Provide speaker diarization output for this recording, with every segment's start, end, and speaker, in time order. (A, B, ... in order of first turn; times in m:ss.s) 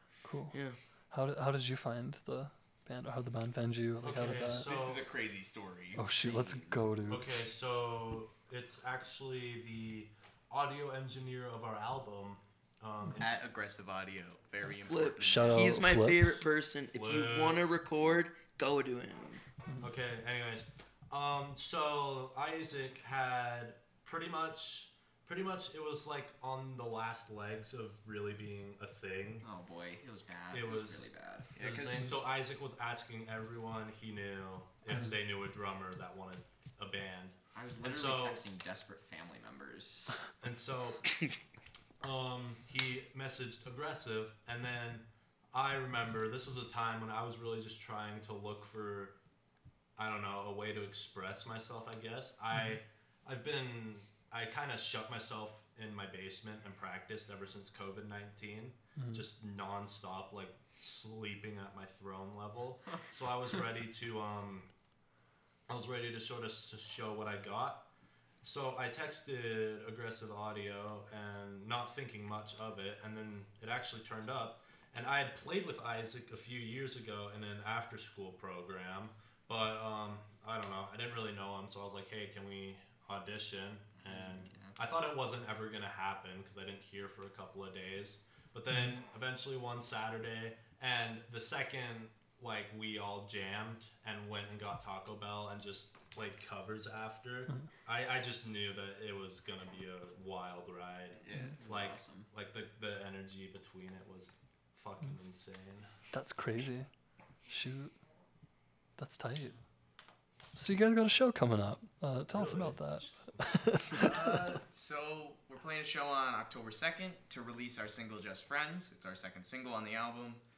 0:00.2-0:00.6 A
0:01.1-0:04.7 A
0:04.0-0:05.0 B
0:04.5-0:06.0 C
0:05.9-0:07.4 A
0:06.0-0:06.8 D
0:07.1-0:13.4 B
0:13.2-0:15.8 C
0:14.8-0:19.4 E
0:15.2-0:16.3 A
0:16.9-0:17.6 B
0:19.8-0:29.4 B
0:29.4-0:31.5 D
0:30.5-0:38.4 B
0:31.6-0:32.2 C
0:37.5-0:40.2 D
0:40.4-0:41.0 B
0:42.0-0:49.2 B
0:50.0-1:04.7 B
0:59.0-0:59.2 A
1:05.7-1:07.9 B
1:08.4-1:45.9 B
1:24.0-1:24.8 D
1:41.2-1:42.3 D
1:46.1-1:46.9 A
1:47.5-1:48.0 A
1:49.0-1:49.6 A
1:50.5-1:54.5 A
1:52.3-1:53.5 B
1:53.9-2:00.4 C